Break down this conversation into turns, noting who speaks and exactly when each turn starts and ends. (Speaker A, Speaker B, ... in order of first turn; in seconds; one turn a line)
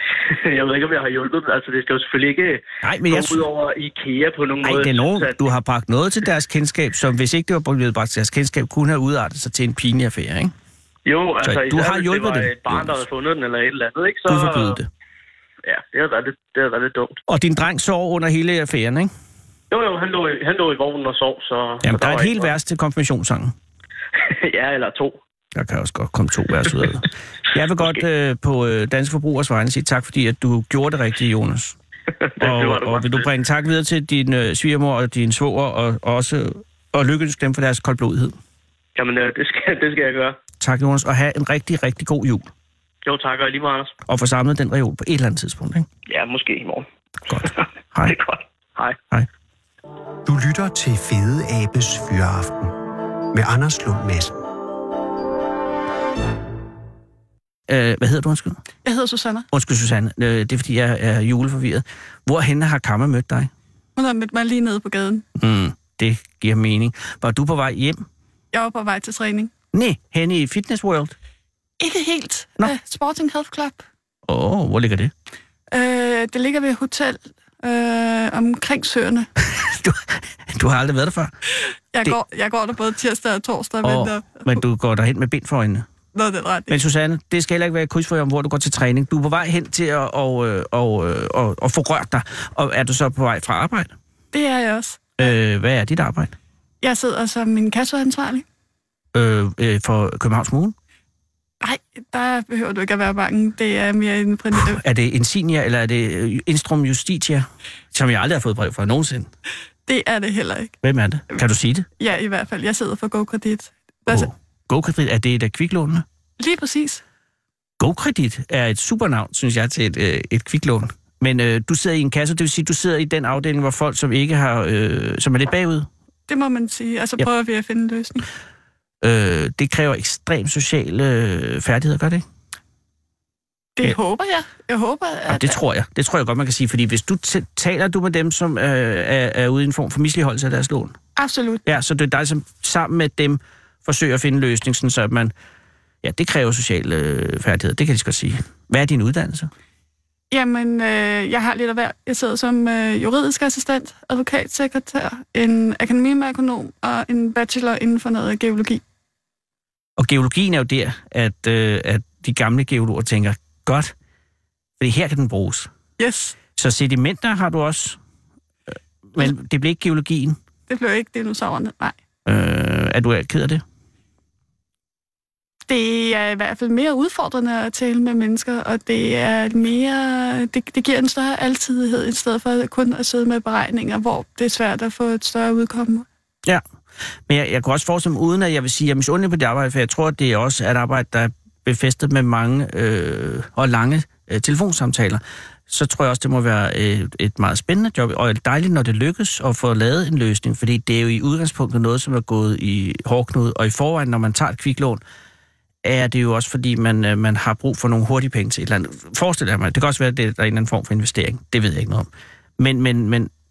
Speaker A: 0.2-5.4
Speaker B: 2.8-3.5
Speaker B: 4.6-10.5
Speaker A: 11.1-14.8
Speaker B: 11.4-13.0
Speaker B: 14.3-14.9
Speaker A: 15.7-17.2
Speaker B: 17.3-19.1
Speaker A: 19.7-22.5
Speaker B: 21.8-23.6
Speaker A: 24.2-25.2
Speaker B: 25.6-31.8
Speaker A: 32.3-33.3
Speaker B: 32.4-38.4
Speaker A: 39.0-40.4
Speaker B: 40.6-42.5
Speaker A: 43.0-43.9
Speaker B: 44.1-45.9
Speaker A: 46.1-49.0
Speaker B: 47.3-48.2
Speaker C: 50.2-52.8
Speaker C: 53.3-54.4
Speaker B: 57.7-58.6
Speaker D: 58.8-59.5
Speaker B: 59.5-63.5
Speaker D: 64.0-65.2
Speaker B: 65.4-68.0
Speaker D: 68.5-69.5
Speaker B: 69.7-71.2
Speaker D: 71.8-73.8
Speaker B: 74.3-75.1
Speaker D: 75.7-79.3
Speaker B: 79.4-81.3
Speaker D: 81.9-84.6
Speaker B: 83.8-85.9
Speaker D: 86.1-86.8
Speaker B: 86.7-93.9
Speaker D: 94.3-95.3
Speaker B: 95.2-96.3
Speaker D: 96.8-98.5
Speaker B: 99.1-100.8
Speaker D: 101.6-104.8
Speaker B: 104.5-109.3
Speaker D: 109.9-110.8
Speaker B: 110.8-111.9
Speaker D: 112.0-114.3
Speaker B: 114.1-116.0
Speaker D: 116.4-117.0
Speaker B: 117.8-125.9
Speaker D: 126.3-128.3
Speaker B: 129.0-132.2
Speaker D: 133.8-135.6
Speaker B: 135.3-140.9
Speaker D: 141.2-141.6
Speaker B: 141.7-145.3
Speaker B: 146.0-149.5
Speaker D: 150.3-158.8
Speaker B: 160.0-163.9
Speaker B: 164.8-165.7
Speaker D: 166.0-166.4
Speaker B: 166.6-168.0
Speaker B: 169.1-170.4
Speaker D: 170.7-172.0
Speaker B: 172.3-173.6
Speaker D: 175.7-186.1
Speaker B: 187.3-205.0
Speaker B: 205.8-213.3